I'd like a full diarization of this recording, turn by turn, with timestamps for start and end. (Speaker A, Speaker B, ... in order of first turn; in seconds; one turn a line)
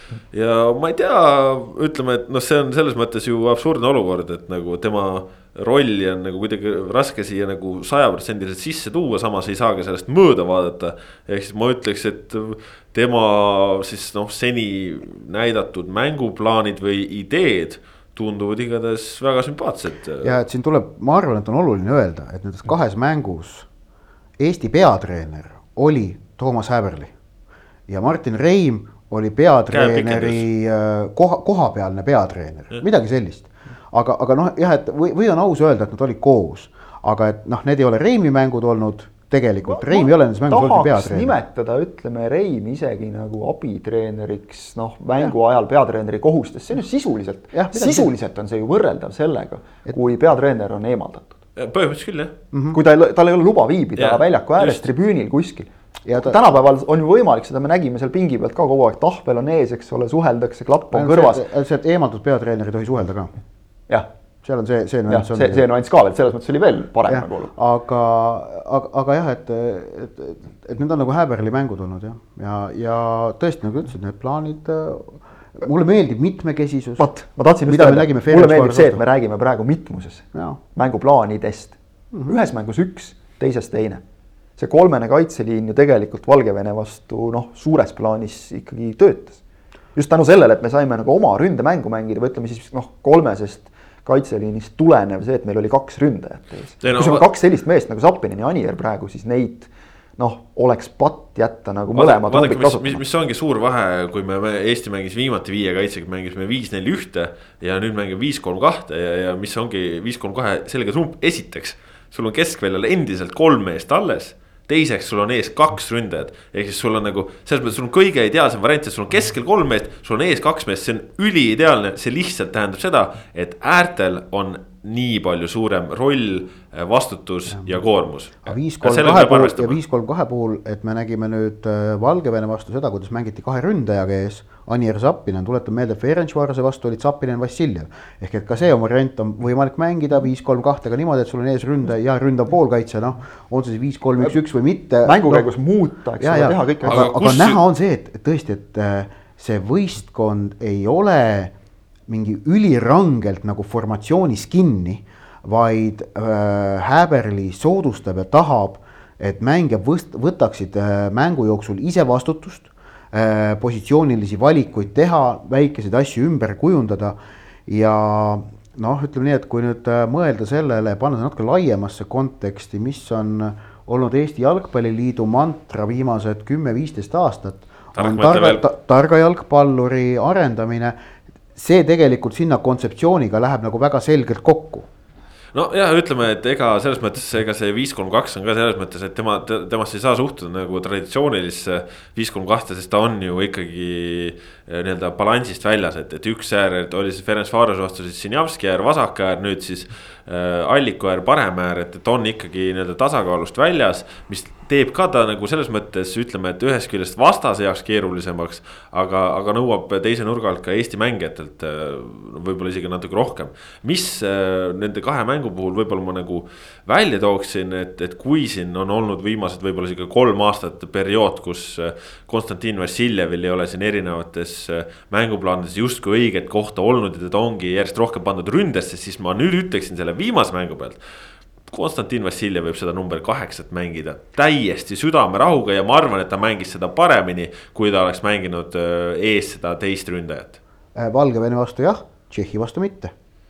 Speaker A: 0.3-20.3
Speaker B: 20.2-23.7
Speaker B: 24.4-27.1
Speaker B: 27.9-41.3
Speaker A: 29.7-30.4
Speaker C: 39.7-51.4
Speaker B: 47.5-48.1
Speaker A: 51.5-52.3
Speaker B: 52.5-52.8
Speaker C: 52.7-61.4
Speaker A: 54.0-54.8
Speaker B: 56.0-56.5
Speaker B: 60.9-63.3
Speaker B: 64.4-65.6
Speaker C: 65.1-67.5
Speaker B: 67.1-77.1
Speaker C: 77.0-84.0
Speaker B: 77.7-79.0
Speaker B: 80.3-80.6
Speaker C: 84.6-89.4
Speaker C: 89.9-103.0
Speaker A: 96.8-97.2
Speaker A: 101.9-129.8
Speaker B: 128.4-145.5
Speaker C: 145.0-147.1
Speaker B: 146.2-151.5
Speaker A: 146.8-147.6
Speaker B: 152.1-167.2
Speaker B: 167.7-180.9
Speaker A: 177.9-178.6
Speaker B: 181.5-184.9
Speaker A: 185.5-231.0
Speaker A: 231.7-240.6
Speaker B: 240.9-243.1